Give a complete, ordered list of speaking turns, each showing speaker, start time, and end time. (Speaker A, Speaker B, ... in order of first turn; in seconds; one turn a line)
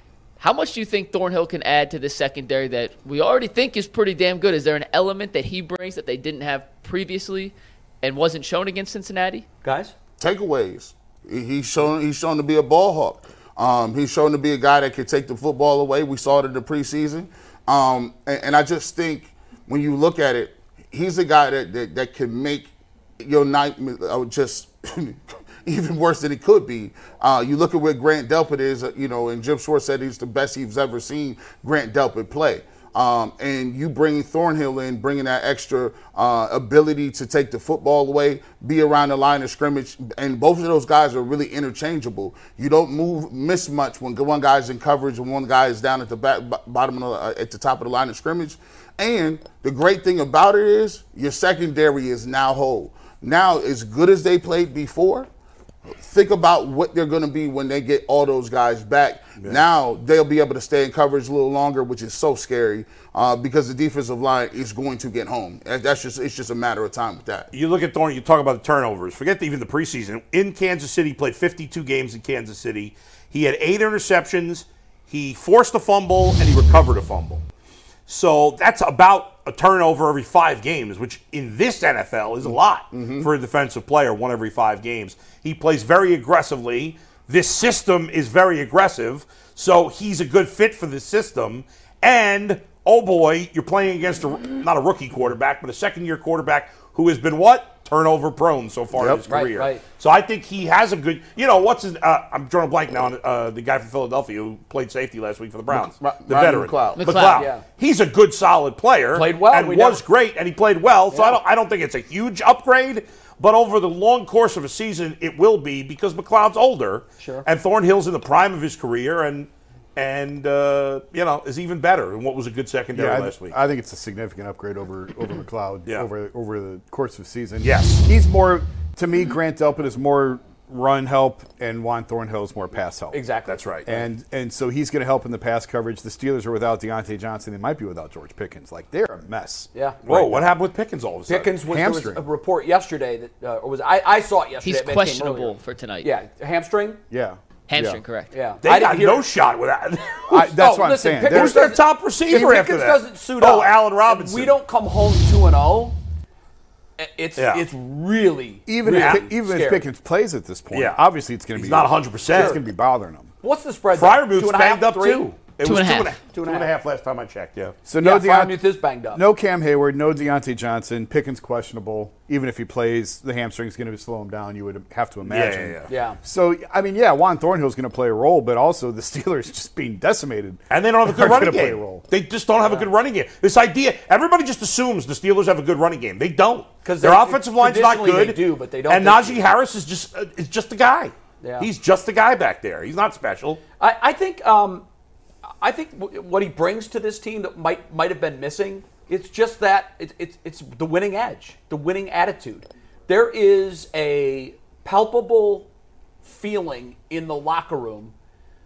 Speaker A: 0.4-9.5
Speaker B: 9.6-9.9
Speaker C: 10.2-55.3
Speaker C: 56.0-67.5
Speaker D: 67.5-77.4
Speaker D: 78.1-123.5
Speaker C: 82.5-83.3
Speaker C: 98.9-99.2
Speaker B: 99.3-99.8
Speaker C: 105.7-107.0
Speaker A: 107.0-107.5
Speaker B: 107.3-107.6
Speaker B: 109.1-110.0
Speaker B: 111.1-111.4
Speaker B: 117.2-117.5
Speaker E: 122.9-133.2
Speaker D: 127.6-128.1
Speaker B: 133.1-134.1
Speaker D: 133.4-133.9
Speaker E: 133.8-140.6
Speaker B: 139.7-140.0
Speaker D: 140.1-141.5
Speaker B: 141.3-147.0
Speaker E: 141.7-142.2
Speaker A: 144.6-146.1
Speaker E: 147.1-148.0
Speaker A: 147.7-148.3
Speaker B: 148.3-149.3
Speaker D: 148.6-150.5
Speaker E: 150.3-151.7
Speaker B: 150.5-156.0
Speaker D: 151.3-154.6
Speaker B: 157.0-159.9
Speaker D: 157.4-157.6
Speaker E: 158.7-163.3
Speaker D: 158.9-159.3
Speaker D: 160.7-161.0
Speaker D: 161.6-162.6
Speaker B: 162.3-162.6
Speaker B: 163.4-165.3
Speaker D: 163.9-167.8
Speaker A: 165.6-166.2
Speaker B: 166.3-166.7
Speaker E: 167.9-182.0
Speaker B: 168.0-169.2
Speaker D: 175.3-175.9
Speaker B: 175.9-176.2
Speaker D: 180.7-193.6
Speaker B: 182.6-182.9
Speaker B: 186.8-189.5
Speaker B: 191.4-191.7
Speaker B: 193.8-194.9
Speaker B: 195.6-205.7
Speaker B: 206.2-208.1